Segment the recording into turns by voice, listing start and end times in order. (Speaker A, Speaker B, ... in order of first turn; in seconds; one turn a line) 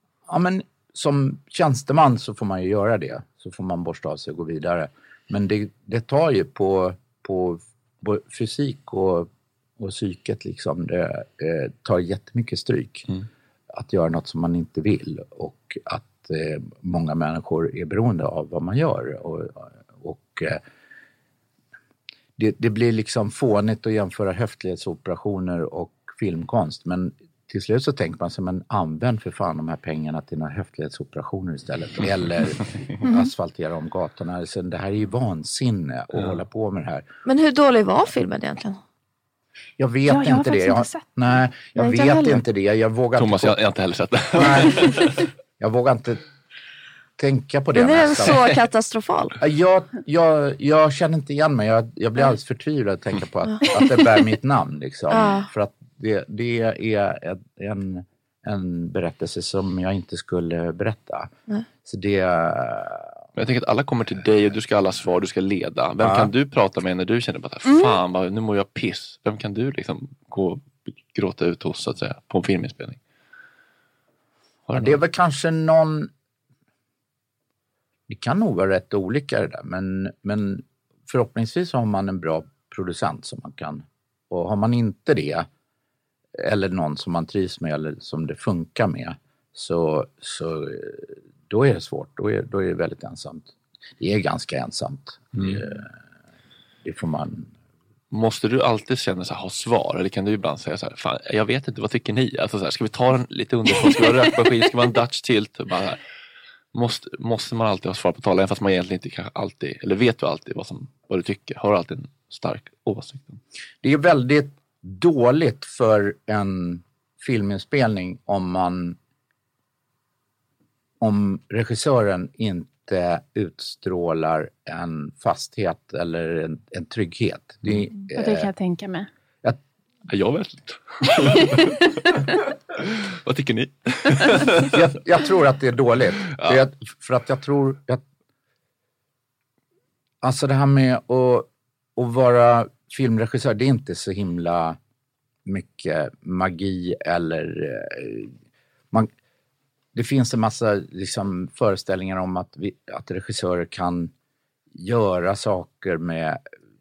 Speaker A: 0.3-9.3
Speaker A: 9.8-13.1
Speaker A: 13.7-20.6
Speaker A: 22.4-37.0
Speaker B: 37.3-38.8
Speaker A: 39.8-43.6
Speaker C: 40.0-41.1
Speaker C: 41.8-42.4
Speaker D: 43.1-45.1
Speaker A: 44.4-44.8
Speaker A: 45.6-46.2
Speaker A: 47.2-48.4
Speaker B: 47.7-49.4
Speaker A: 49.4-61.3
Speaker B: 55.1-55.5
Speaker A: 61.8-63.1
Speaker D: 63.4-73.0
Speaker A: 66.0-66.3
Speaker C: 67.7-68.0
Speaker D: 74.7-75.0
Speaker A: 74.8-76.1
Speaker A: 78.1-85.5
Speaker A: 86.4-96.0
Speaker A: 96.8-97.5
Speaker D: 98.1-106.0
Speaker D: 106.7-113.4
Speaker A: 113.8-119.0
Speaker A: 121.0-128.5
Speaker C: 128.1-129.1
Speaker D: 130.1-131.6
Speaker D: 132.8-134.7
Speaker A: 134.7-138.0
Speaker D: 136.3-136.6
Speaker A: 140.2-144.8
Speaker A: 145.5-148.3
Speaker A: 149.9-154.1
Speaker A: 154.7-156.4